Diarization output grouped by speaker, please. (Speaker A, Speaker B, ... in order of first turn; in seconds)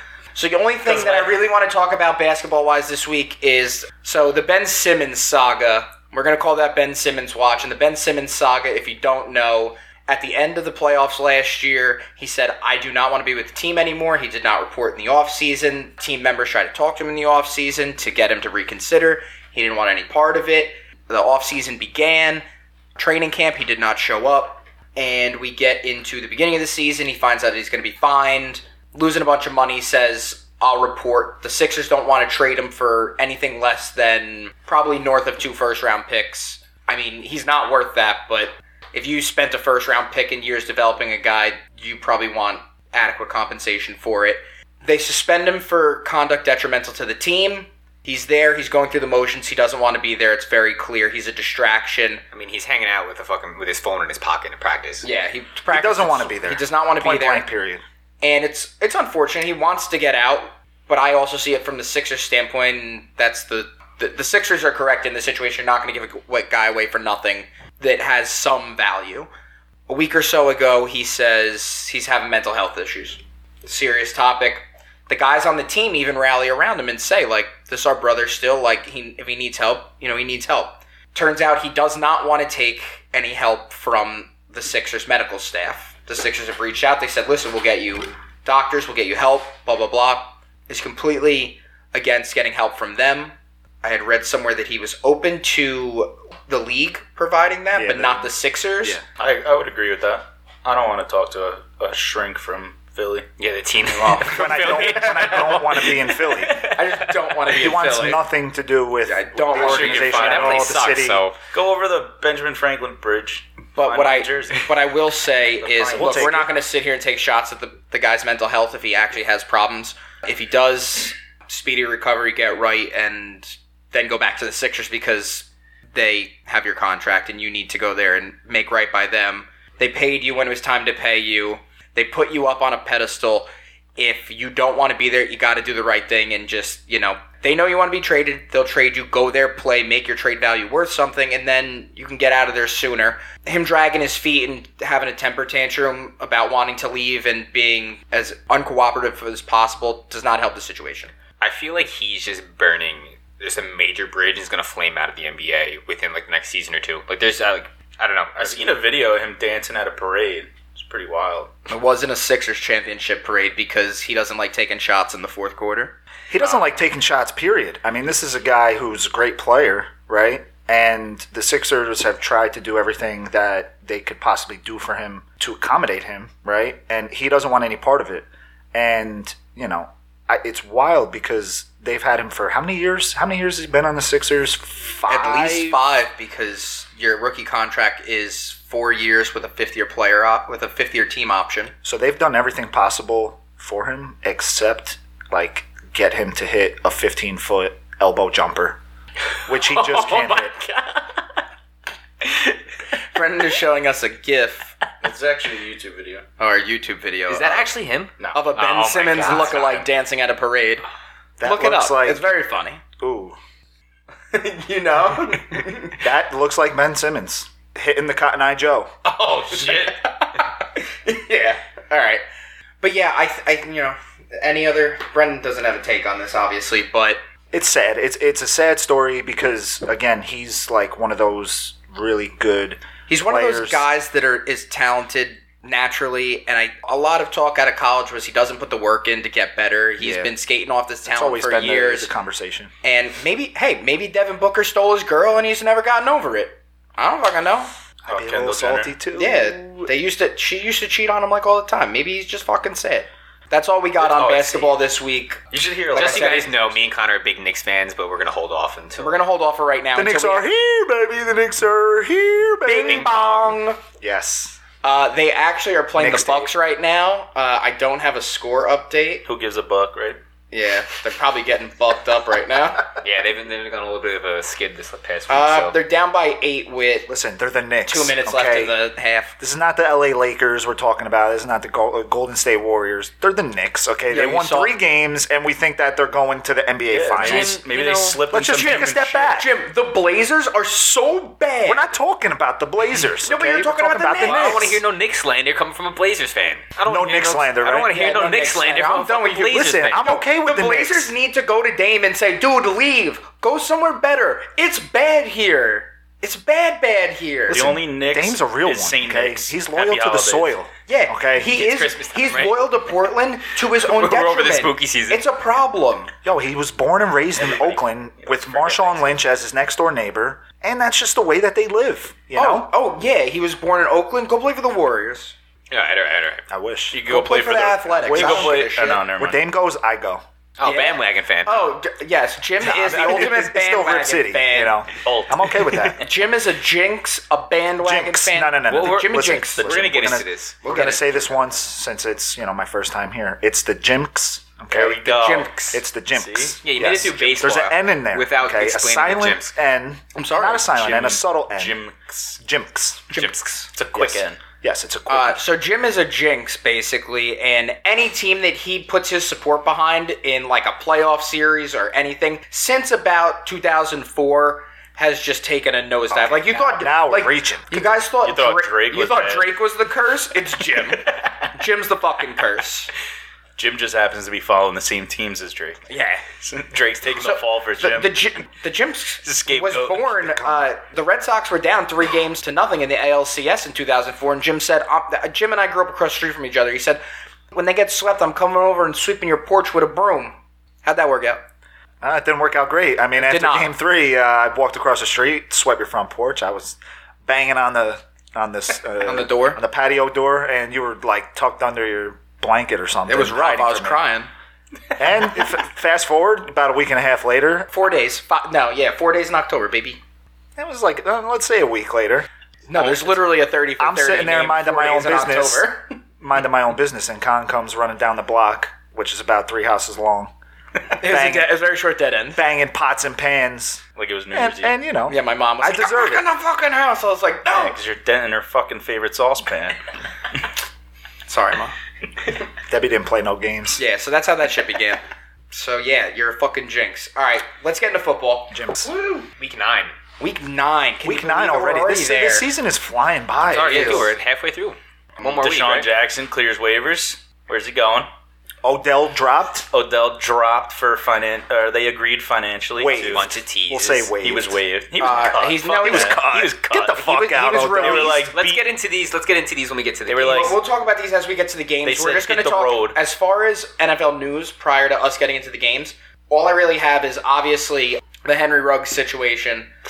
Speaker A: 0.3-22.4, 23.0-52.2, 55.0-57.5, 58.2-69.3, 69.9-99.0, 106.6-108.2, 109.0-110.5, 113.7-151.1, 161.7-165.9, 185.1-191.7, 203.0-204.7, 206.4-207.7, 208.3-210.8, 211.4-212.8, 214.3-216.0, 219.1-222.2, 222.8-227.2, 233.1-242.1, 242.8-247.7, 249.1-256.8, 259.0-260.4, 262.6-263.8, 264.8-269.2, 270.5-272.9, 275.3-277.1, 277.9-279.4, 284.1-284.7, 288.5-291.9, 293.2-294.8, 297.6-307.7, 310.9-316.1, 322.3-325.3, 327.0-329.0, 330.6-334.8, 336.0-339.7, 340.6-341.3, 345.0-345.8, 350.1-350.8, 353.1-353.6, 355.1-372.9, 375.9-376.2, 377.2-387.0, 387.5-391.4, 393.1-393.7, 399.0-399.6, 403.1-404.3, 407.7-410.0, 412.7-415.9, 420.9-422.4, 425.1-427.7, 431.3-431.7, 433.8-435.0, 435.5-439.2, 440.2-442.5, 443.5-444.1, 455.0-458.3, 460.2-469.7
Speaker B: 0.8-1.3, 99.2-103.3, 103.8-105.5, 109.5-110.7, 111.5-114.7, 115.5-116.3, 158.4-161.5, 205.0-206.2, 208.2-208.4, 209.2-209.8, 219.5-219.9, 248.1-248.9, 254.0-254.8, 255.5-256.6, 269.2-270.2, 286.9-289.4, 307.5-310.5, 317.4-319.2, 326.9-329.4, 335.0-336.1, 339.6-340.2, 344.7-346.6, 350.7-352.4, 353.7-354.4, 368.2-369.5, 373.6-375.8, 376.4-378.2, 379.2-380.1, 423.9-424.7, 427.5-429.8, 445.2-448.1, 449.7-453.3, 454.2-456.9, 457.8-458.7, 460.1-460.6, 461.8-463.0
Speaker C: 52.3-55.1, 103.4-107.1, 109.6-111.3, 151.4-158.7, 199.5-201.2, 202.2-202.5, 207.3-209.8, 255.9-259.2, 262.9-263.3, 273.0-275.8, 287.1-288.2, 294.2-300.1, 311.5-312.7, 313.7-315.2, 325.7-326.4, 330.6-331.7, 338.7-340.6, 346.6-349.5, 353.1-353.7, 439.4-439.9, 443.5-445.9, 452.8-454.1, 458.3-460.6
Speaker D: 55.7-57.8, 97.7-98.3, 104.2-106.7, 107.5-111.2, 115.9-116.5, 166.3-185.8, 191.8-198.8, 199.4-200.6, 211.4-212.2, 213.0-213.4, 216.0-218.9, 227.5-233.8, 240.0-240.3, 241.1-242.7, 248.0-249.9, 259.9-263.4, 264.0-264.6, 265.9-266.5, 277.1-278.7, 279.4-287.6, 288.3-289.5, 291.6-294.8, 296.9-297.9, 299.4-301.1, 307.5-311.6, 316.2-322.7, 326.5-327.0, 328.0-330.2, 332.6-336.0, 337.8-345.1, 345.7-351.8, 352.4-353.1, 353.9-355.4, 366.1-367.9, 380.0-380.7, 392.0-404.0, 404.9-407.7, 410.6-413.1, 413.8-415.7, 416.2-420.3, 421.0-421.5, 422.3-426.3, 432.7-433.8, 438.5-438.9, 441.0-444.1, 448.6-449.7, 452.8-454.6, 455.5-458.2